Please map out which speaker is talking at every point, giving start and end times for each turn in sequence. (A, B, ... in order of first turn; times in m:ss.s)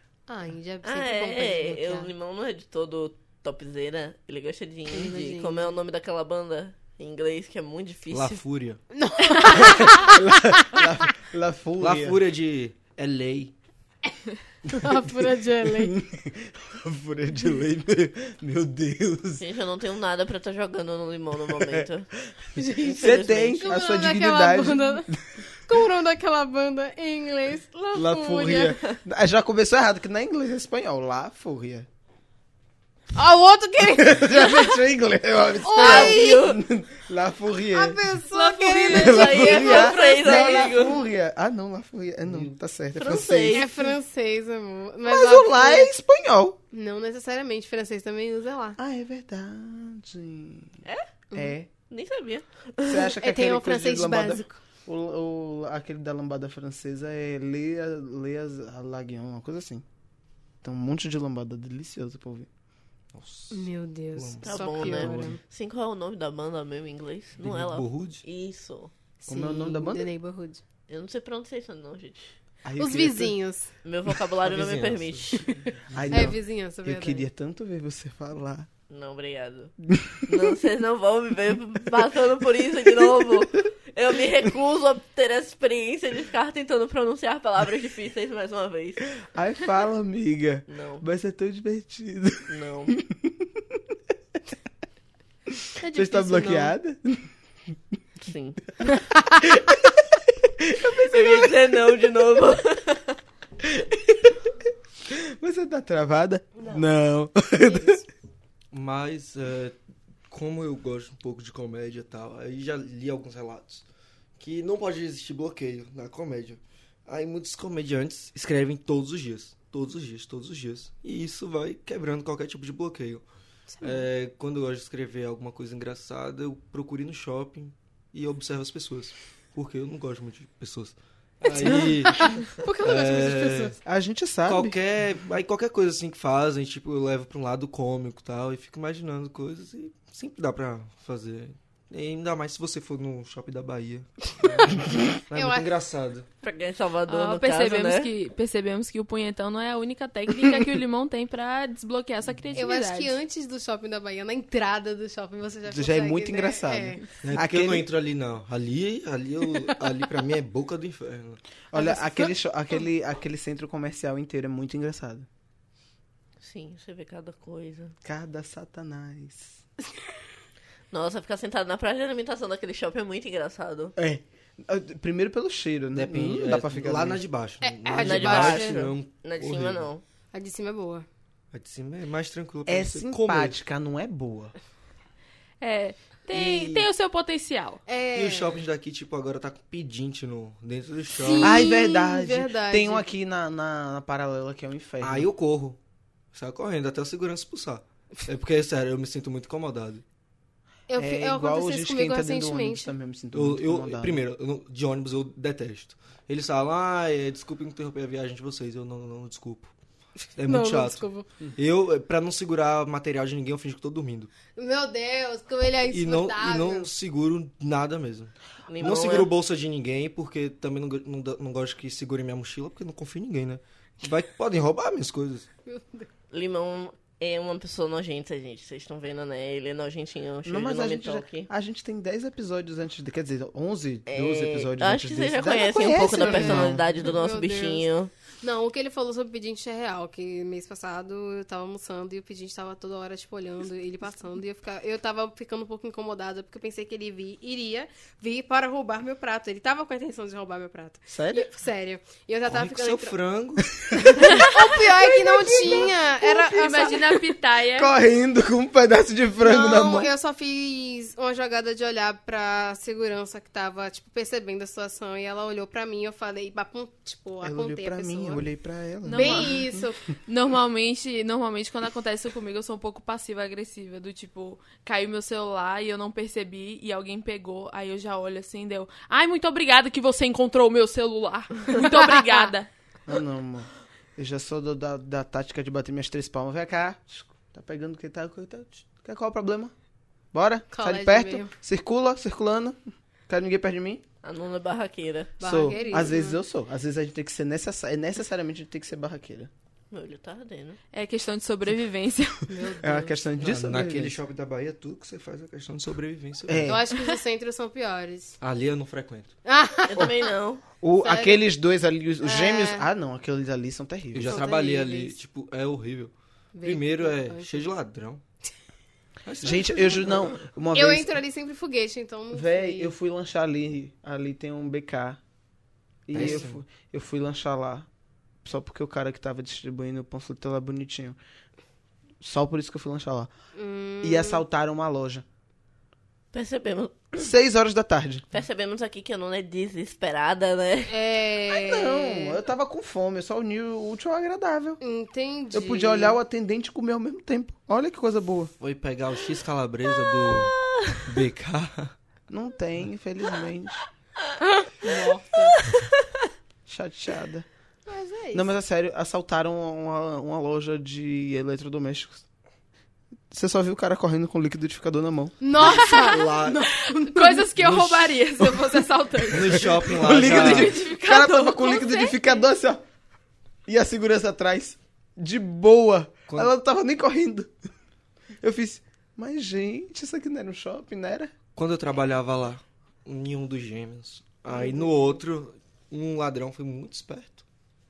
0:00.3-0:02.1 A
0:00.8-0:08.4 B
0:04.9-0:05.7 A
0:08.1-0:08.8 C
0:08.9-0:10.2 A
0:09.9-0:12.2 D
0:11.8-0:13.5 C
0:14.7-0:16.0 A
0:15.7-0:19.4 D
0:19.4-0:22.1 B
0:22.6-0:25.1 A
0:22.8-0:23.7 B
0:23.0-0:25.2 D
0:25.7-0:28.8 A
0:27.9-0:31.9 D
0:33.1-0:34.8 A
0:33.8-0:38.0 D
0:35.6-0:36.4 A
0:35.8-0:36.6 B
0:37.7-0:40.7 A
0:38.3-0:39.4 E
0:38.9-0:43.7 D
0:38.9-0:41.0 B
0:42.3-0:42.6 C
0:43.0-0:43.9 B
0:43.5-0:45.9 A
0:45.1-0:46.6 D
0:46.7-0:48.8 A
0:48.8-0:50.7 D
0:51.3-0:51.7 D
0:51.9-0:53.1 B
0:52.9-0:59.8 D
0:53.2-0:54.6 A
1:00.6-1:02.5 D
1:03.1-1:05.4 C
1:03.5-1:05.4 A
1:04.4-1:08.9 B
1:07.4-1:08.2 C
1:09.2-1:10.6 A
1:09.3-1:10.1 D
1:10.9-1:12.4 B
1:12.6-1:13.4 D
1:12.8-1:13.7 A
1:13.8-1:15.6 B
1:14.5-1:16.3 C
1:15.9-1:18.7 D
1:16.1-1:17.3 A
1:18.9-1:19.7 B
1:19.9-1:20.3 D
1:20.3-1:29.1 B
1:29.3-1:33.8 D
1:30.7-1:31.0 B
1:32.5-1:33.0 B
1:35.8-1:36.7 A
1:35.9-1:37.3 D
1:38.2-1:38.6 B
1:39.4-1:41.7 D
1:41.0-1:43.2 B
1:43.6-1:44.4 D
1:45.1-1:48.0 D
1:47.6-1:48.0 A
1:48.7-1:49.8 C
1:50.3-1:53.8 C
1:54.4-2:03.2 C
2:03.7-2:04.1 A
2:03.8-2:13.8 C
2:11.5-2:13.8 A
2:13.8-2:14.8 D
2:14.5-2:26.3 C
2:25.3-2:25.7 A
2:26.4-2:28.1 B
2:27.1-2:33.2 E
2:32.5-2:37.1 A
2:35.7-2:37.9 D
2:37.2-2:41.4 C
2:41.7-2:45.3 D
2:41.7-2:42.3 A
2:46.4-2:48.0 B
2:48.0-2:49.6 D
2:50.9-2:53.9 B
2:54.0-2:57.2 D
2:56.0-2:59.9 C
2:57.6-2:58.9 A
2:58.0-3:00.0 B
3:00.3-3:01.1 A
3:01.5-3:03.6 C
3:02.7-3:04.5 D
3:05.6-3:07.8 E
3:06.3-3:06.9 C
3:07.9-3:08.6 A
3:08.1-3:11.7 C
3:11.1-3:13.0 A
3:11.4-3:15.3 D
3:15.0-3:15.8 C
3:16.3-3:20.0 C
3:20.9-3:22.9 A
3:21.0-3:24.2 D
3:23.3-3:29.7 C
3:30.2-3:31.3 A
3:30.4-3:34.3 C
3:34.6-3:36.9 A
3:35.9-3:45.5 C
3:38.7-3:39.3 B
3:45.7-3:46.1 A
3:46.3-3:51.5 B
3:50.4-3:56.8 D
3:54.1-3:58.1 B
3:56.1-3:57.9 A
3:58.4-4:13.2 A
4:11.1-4:11.5 D
4:12.4-4:14.0 C
4:14.0-4:14.3 D
4:14.1-4:17.2 A
4:15.1-4:16.0 D
4:16.3-4:17.9 E
4:17.7-4:20.1 D
4:19.4-4:28.4 A
4:27.4-4:29.9 D
4:29.0-4:29.6 E
4:29.1-4:30.0 A
4:30.3-4:42.7 E
4:41.7-4:42.5 A
4:43.1-4:49.7 D
4:50.3-4:54.0 D
4:50.7-4:51.5 A
4:54.2-4:55.4 B
4:55.4-4:56.4 A
4:55.4-4:59.5 D
4:59.9-5:00.8 B
5:00.9-5:02.5 E
5:02.5-5:03.2 A
5:02.8-5:04.2 D
5:03.4-5:06.8 C
5:06.5-5:06.8 D
5:06.6-5:08.4 A
5:08.4-5:09.3 C
5:09.4-5:10.3 A
5:09.9-5:10.6 B
5:10.8-5:14.4 D
5:11.0-5:11.4 A
5:12.2-5:12.8 A
5:14.1-5:16.1 C
5:14.3-5:15.2 A
5:16.6-5:17.7 A
5:16.6-5:18.2 C
5:19.2-5:20.4 C
5:19.4-5:21.2 D
5:20.7-5:22.9 A
5:22.3-5:25.2 D
5:26.1-5:27.9 D
5:26.1-5:26.6 C
5:26.2-5:26.4 A
5:28.4-5:31.2 D
5:32.2-5:33.3 D
5:33.6-5:34.4 A
5:34.0-5:35.2 D
5:36.3-5:37.3 B
5:37.2-5:38.2 D
5:38.3-5:40.9 B
5:40.9-5:42.4 A
5:41.5-5:44.8 D
5:44.8-5:46.2 A
5:45.5-5:48.5 D
5:48.6-5:50.5 C
5:50.2-5:51.1 B
5:51.1-5:51.9 C
5:52.3-5:53.9 D
5:54.6-5:55.6 A
5:56.7-5:57.5 D
5:57.9-5:58.5 A
5:58.3-6:02.2 D
6:03.3-6:05.4 D
6:05.4-6:07.5 A
6:05.6-6:06.3 E
6:05.8-6:06.7 C
6:07.0-6:12.4 E
6:07.6-6:08.2 C
6:09.3-6:10.8 C
6:09.4-6:12.8 D
6:13.7-6:17.5 D
6:18.4-6:21.3 D
6:21.6-6:27.4 C
6:24.5-6:25.1 A